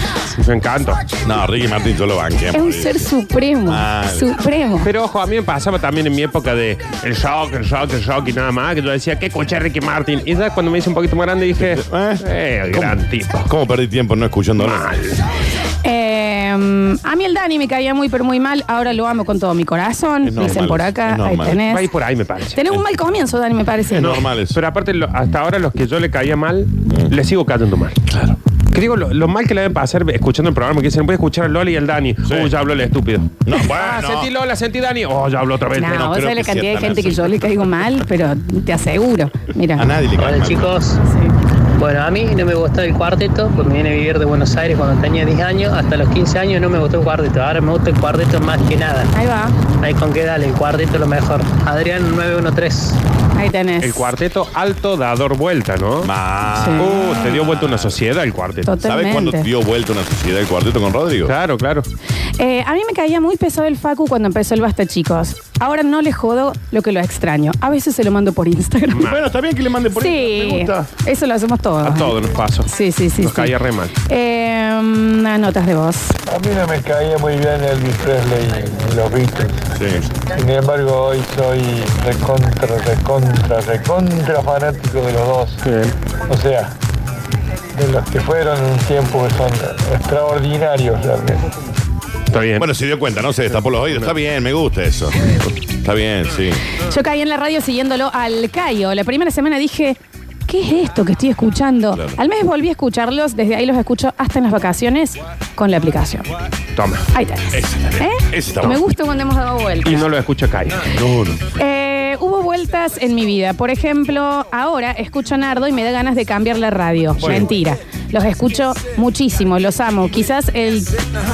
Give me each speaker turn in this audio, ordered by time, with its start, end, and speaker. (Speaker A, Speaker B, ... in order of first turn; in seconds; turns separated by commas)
Speaker A: 0.4-1.0, Speaker B: 1.2-3.1, Speaker C: 2.5-4.9, Speaker B: 3.7-4.3, Speaker A: 4.8-13.5, Speaker B: 11.6-14.9, Speaker A: 14.6-15.2, Speaker C: 15.8-21.9, Speaker B: 20.2-21.6, Speaker A: 21.7-22.6, Speaker C: 22.6-24.2, Speaker B: 23.9-24.6, Speaker A: 24.5-28.0, Speaker B: 26.9-27.1, Speaker B: 28.1-28.4, Speaker A: 28.7-36.1, Speaker B: 32.2-32.5, Speaker B: 33.5-34.3, Speaker C: 35.8-39.9, Speaker B: 35.8-37.7, Speaker B: 39.8-40.8, Speaker D: 40.2-41.0, Speaker C: 41.0-41.3, Speaker D: 41.8-49.1, Speaker C: 49.1-49.6, Speaker D: 49.8-53.0, Speaker C: 53.4-53.9, Speaker A: 53.8-56.1, Speaker B: 56.0-58.0, Speaker C: 56.5-56.9, Speaker A: 56.8-58.7, Speaker C: 58.6-59.5, Speaker B: 58.8-61.3, Speaker A: 61.3-61.9, Speaker C: 62.4-69.0, Speaker A: 68.9-69.2, Speaker B: 69.0-70.9, Speaker C: 70.0-72.1, Speaker A: 71.8-73.9, Speaker C: 72.7-73.5, Speaker C: 74.1-76.2, Speaker E: 76.3-79.7, Speaker B: 79.8-80.0, Speaker E: 80.3-85.6, Speaker A: 85.6-85.9, Speaker E: 86.3-86.7, Speaker E: 87.8-91.5, Speaker A: 92.3-92.7, Speaker B: 92.6-96.6, Speaker C: 96.9-106.3, Speaker B: 101.9-102.2, Speaker A: 106.8-107.0, Speaker C: 107.1-110.1, Speaker B: 107.5-108.8, Speaker A: 109.8-110.9, Speaker B: 110.9-111.4, Speaker C: 111.6-121.0, Speaker B: 117.2-117.5, Speaker A: 117.2-117.5